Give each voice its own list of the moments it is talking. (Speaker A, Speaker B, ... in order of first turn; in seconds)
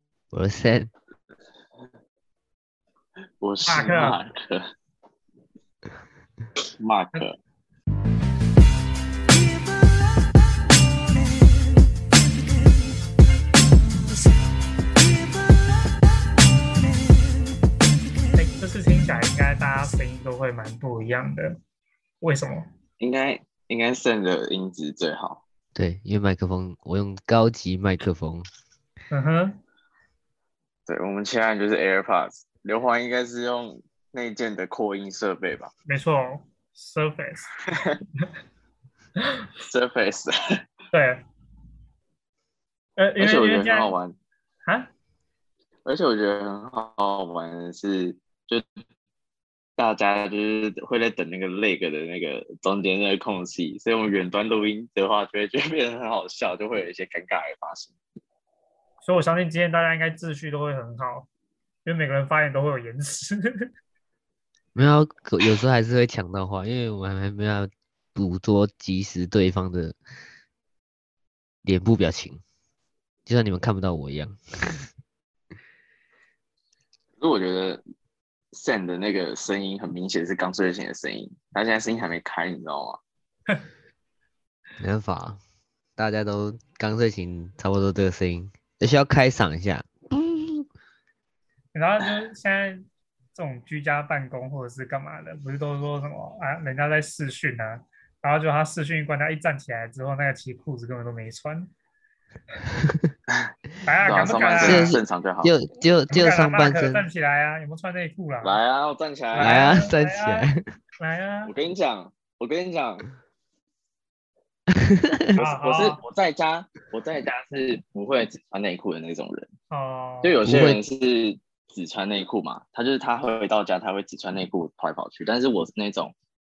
Speaker A: 0.3-0.9, 25.8-28.5, 64.8-70.0, 71.6-72.4, 73.3-74.9, 84.8-85.4, 86.0-90.7, 102.8-103.1, 104.6-107.0, 109.4-110.6, 114.8-115.3, 120.5-120.8
Speaker B: 3.4-4.7, 6.8-7.4, 23.0-25.4, 30.9-35.7, 37.7-38.0, 39.6-40.3, 43.2-44.1, 45.9-48.6, 49.8-58.0, 77.2-77.8, 78.5-83.0, 104.1-105.5, 108.4-109.7, 111.5-113.1, 115.3-119.5, 120.2-126.1
Speaker C: 3.7-4.2, 18.4-21.6, 22.2-22.7, 29.1-29.6, 35.9-37.5, 40.9-41.2, 43.0-44.0, 44.7-44.9, 59.0-61.3, 61.9-63.4, 91.7-101.7, 103.8-105.0, 106.1-108.6, 109.3-111.5, 115.4-116.0, 119.7-120.5